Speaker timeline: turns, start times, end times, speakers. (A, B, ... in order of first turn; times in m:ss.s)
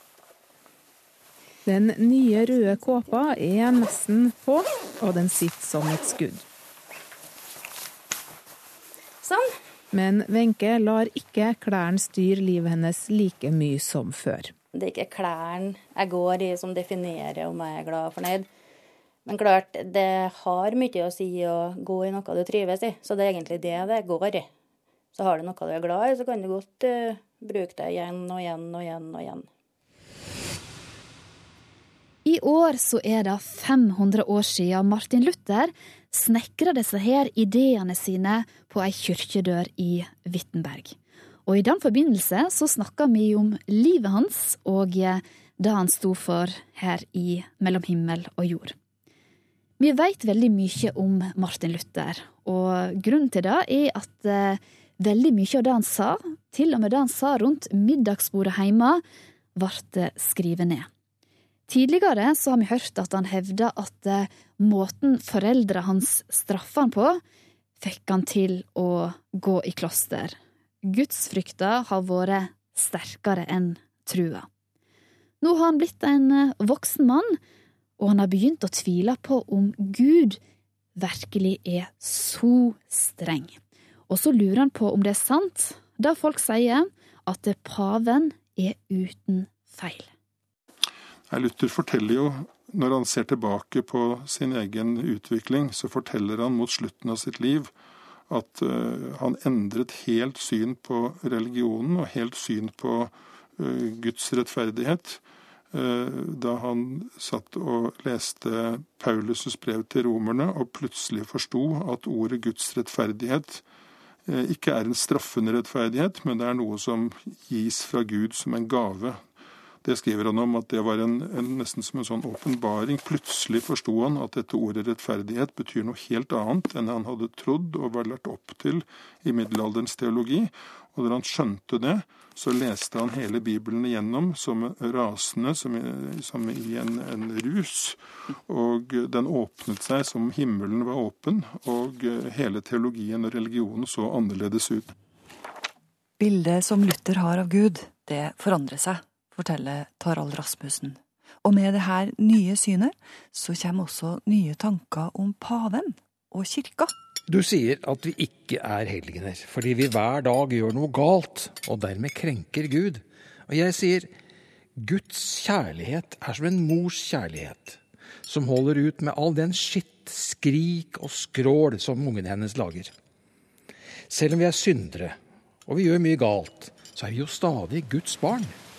0:01.6-0:06.4 A
0:09.2-0:09.5 B
0:09.9-0:14.5 A
0:14.7-0:18.5 B
0:19.2-0:24.5 B
0:25.1-0:29.4 B
0:32.2-0:48.8 C
0:49.8-0:59.0 C
0:59.6-1:00.9 C
1:01.7-1:07.2 C
1:07.8-1:14.5 C
1:15.4-1:17.4 C
1:18.0-1:20.4 C
1:21.0-1:23.6 C
1:24.1-1:30.1 C
1:31.3-1:37.7 D
1:38.3-1:53.6 D
1:54.3-1:59.2 D
1:59.8-2:24.9 D
2:26.2-2:36.9 E
2:37.3-2:44.1 F
2:44.8-2:52.9 F
2:54.1-2:58.6 F